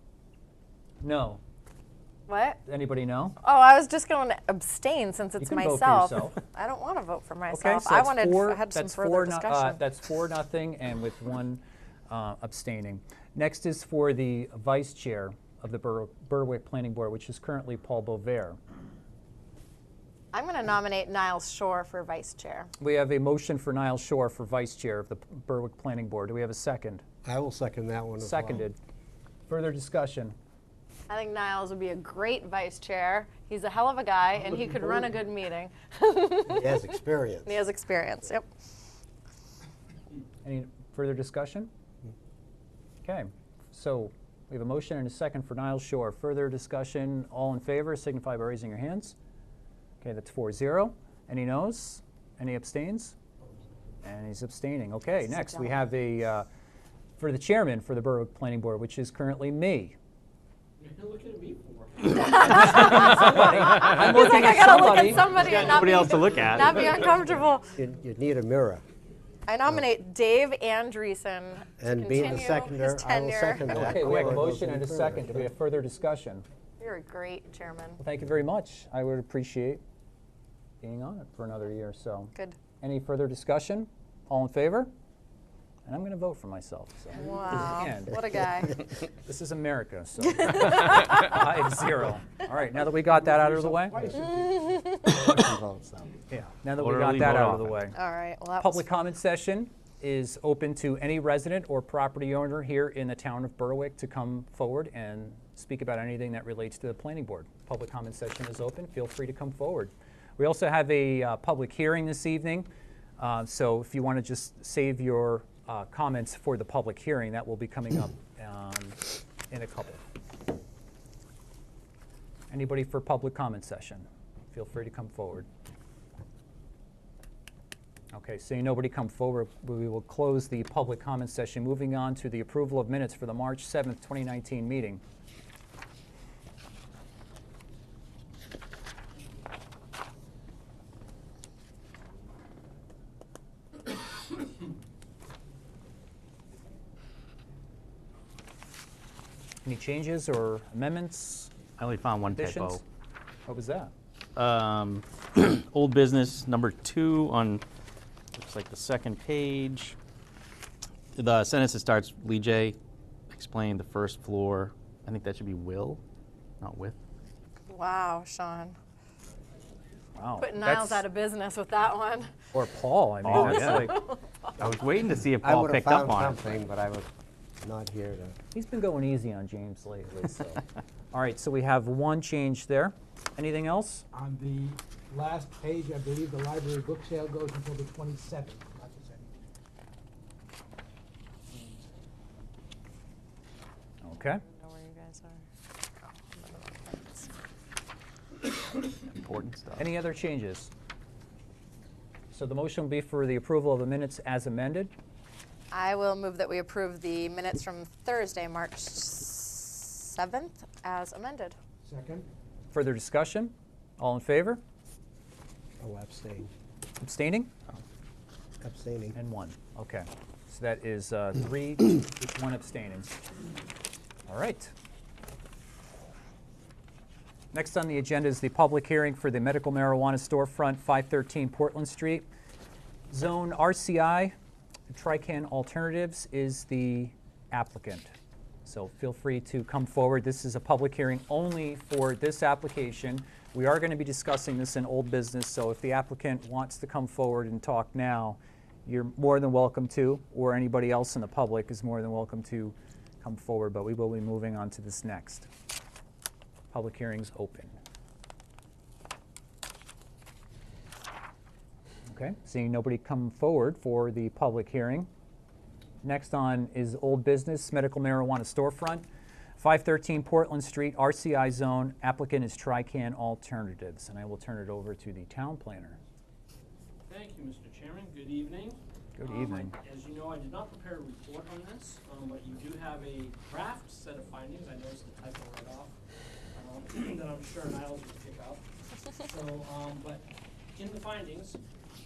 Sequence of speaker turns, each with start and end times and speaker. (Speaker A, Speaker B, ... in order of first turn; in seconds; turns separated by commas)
Speaker A: 1.0-1.4, Speaker B: 2.3-2.6, Speaker A: 2.6-3.4, Speaker B: 3.4-9.8, Speaker A: 5.4-6.4, Speaker A: 7.5-18.6, Speaker B: 20.3-22.7, Speaker A: 22.8-27.0, Speaker C: 27.2-28.7, Speaker A: 28.2-28.8, Speaker A: 29.5-30.3, Speaker B: 31.1-36.8, Speaker C: 36.5-37.6, Speaker B: 37.5-38.4, Speaker A: 40.4-41.7, Speaker A: 43.0-49.1, Speaker A: 50.0-53.1, Speaker A: 54.0-56.5, Speaker B: 55.4-55.8, Speaker A: 57.2-60.0, Speaker D: 60.8-63.6, Speaker B: 62.1-67.7, Speaker A: 62.3-65.3, Speaker D: 64.9-66.9, Speaker E: 65.4-67.0, Speaker C: 67.7-68.8, Speaker B: 69.5-74.1, Speaker C: 71.8-75.5, Speaker A: 73.7-76.4, Speaker B: 76.8-78.0, Speaker A: 78.0-79.8, Speaker A: 80.8-84.9, Speaker A: 85.8-88.4, Speaker B: 87.1-88.8, Speaker A: 89.1-94.1, Speaker B: 90.5-91.3, Speaker F: 93.2-94.5, Speaker C: 94.0-94.2, Speaker B: 94.4-95.3, Speaker C: 95.0-96.1, Speaker A: 96.3-97.9, Speaker E: 96.8-97.8, Speaker B: 97.9-98.8, Speaker A: 98.6-112.7, Speaker A: 113.2-120.0, Speaker A: 122.5-125.5, Speaker A: 128.1-135.0, Speaker A: 149.6-151.5, Speaker E: 151.8-152.8, Speaker A: 152.3-152.8, Speaker A: 153.5-153.9, Speaker E: 154.3-157.6, Speaker E: 158.3-159.9, Speaker E: 161.1-162.8, Speaker E: 163.3-166.0, Speaker E: 166.6-167.0, Speaker B: 167.7-168.7, Speaker A: 170.2-171.0, Speaker B: 170.4-172.3, Speaker A: 172.5-174.0, Speaker E: 173.2-173.9, Speaker B: 173.3-174.2, Speaker E: 174.6-176.6, Speaker C: 175.4-177.1, Speaker C: 177.6-178.3, Speaker A: 178.5-184.0, Speaker F: 184.1-189.5, Speaker A: 194.0-194.4, Speaker B: 194.2-195.4, Speaker B: 196.0-197.3, Speaker E: 199.1-199.8, Speaker A: 199.8-200.7, Speaker A: 202.3-204.9, Speaker B: 205.7-211.5, Speaker F: 211.8-212.3, Speaker A: 212.7-214.6, Speaker C: 215.8-216.5, Speaker A: 217.0-217.5, Speaker C: 218.6-219.2, Speaker A: 219.1-223.1, Speaker A: 224.3-224.7, Speaker A: 227.5-232.3, Speaker A: 233.1-234.3, Speaker A: 234.9-238.1, Speaker A: 238.6-255.5, Speaker A: 256.7-257.7, Speaker A: 262.1-265.1, Speaker A: 266.0-269.0, Speaker A: 269.6-276.0, Speaker D: 277.1-285.9, Speaker A: 279.2-279.7, Speaker D: 286.5-291.6